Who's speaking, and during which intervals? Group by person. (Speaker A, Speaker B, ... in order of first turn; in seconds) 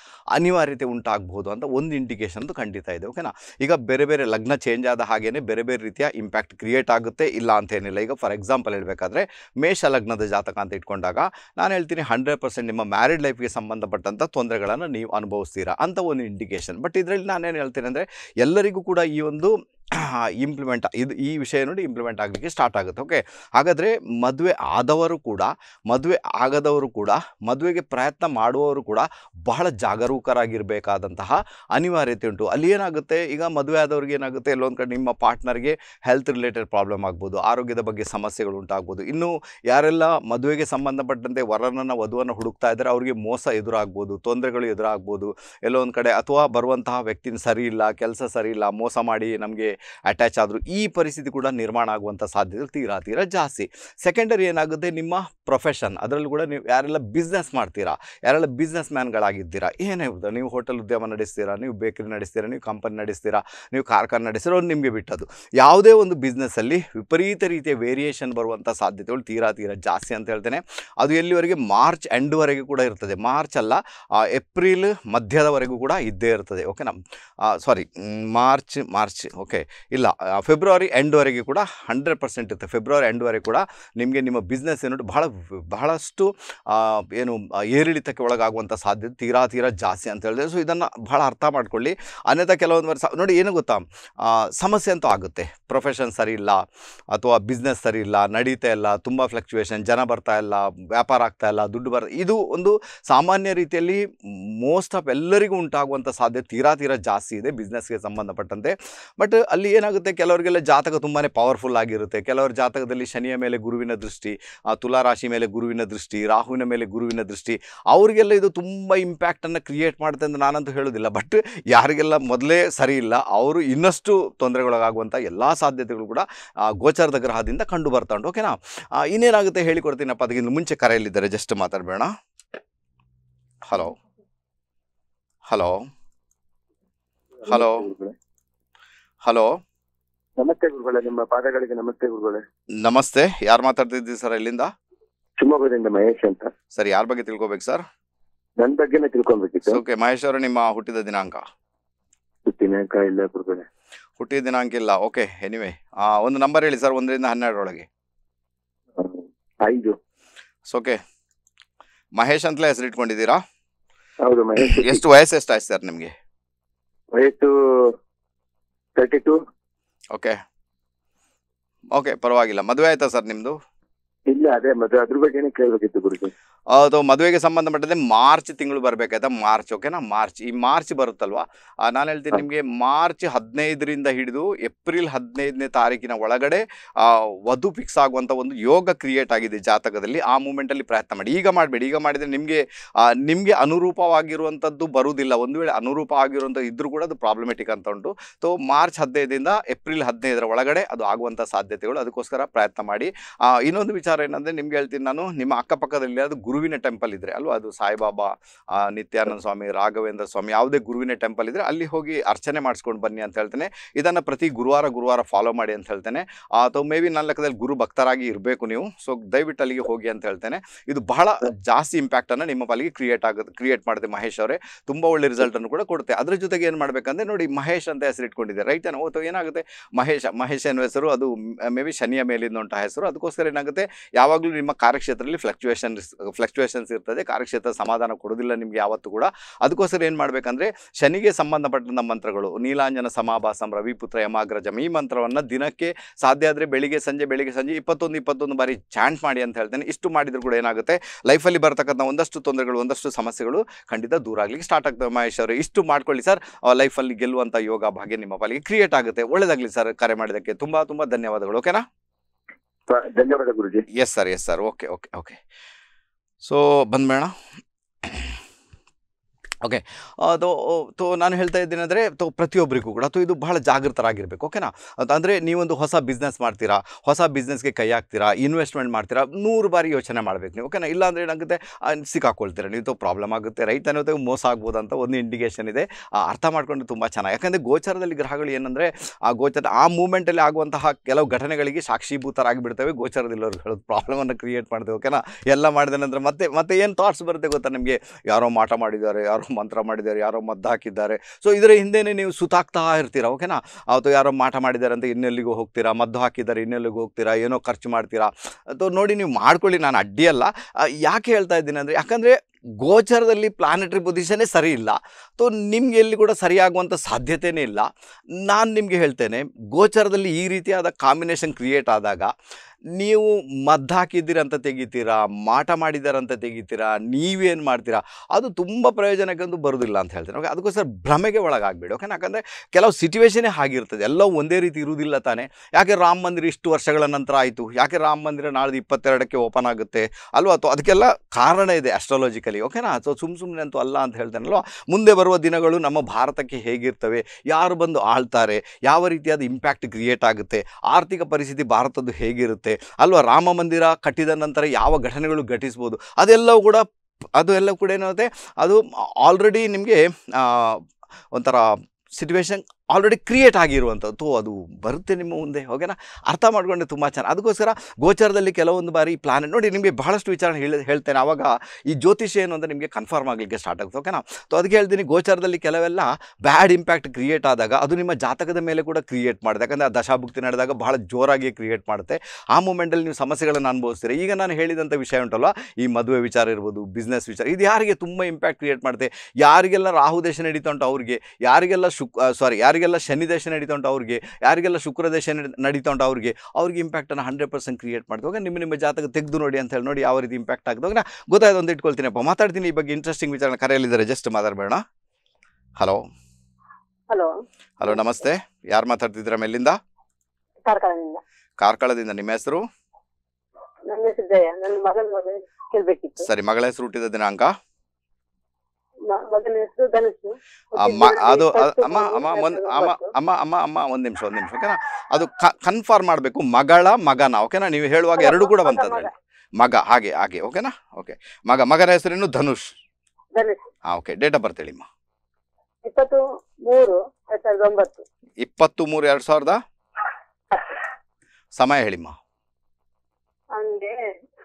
Speaker A: 0.3-104.0, 104.6-132.1, 133.7-133.9, 135.5-135.8, 137.5-137.9, 139.2-139.5, 142.8-144.7, 146.7-147.8, 149.7-151.4, 154.2-157.9, 160.7-161.0, 162.2-163.4, 164.6-166.1, 171.9-173.6, 176.7-261.9, 263.9-265.4, 266.4-267.3, 268.0-268.4, 269.6-322.3, 322.9-356.9, 357.4-360.8, 361.3-404.8, 407.8-409.8, 411.6-412.6, 416.2-417.5, 420.8-429.1, 429.6-432.7, 433.9-434.9, 438.4-439.6, 441.6-442.1
Speaker B: 137.4-138.1, 140.4-142.4, 145.4-146.5, 148.6-149.8, 152.5-153.7, 159.0-160.0, 164.2-165.0, 167.1-168.0, 169.0-169.4, 174.3-176.3, 262.9-263.9
Speaker C: 410.7-411.2, 413.9-416.3, 419.1-423.1, 428.2-429.1, 433.4-433.6, 435.9-438.0, 443.6-444.0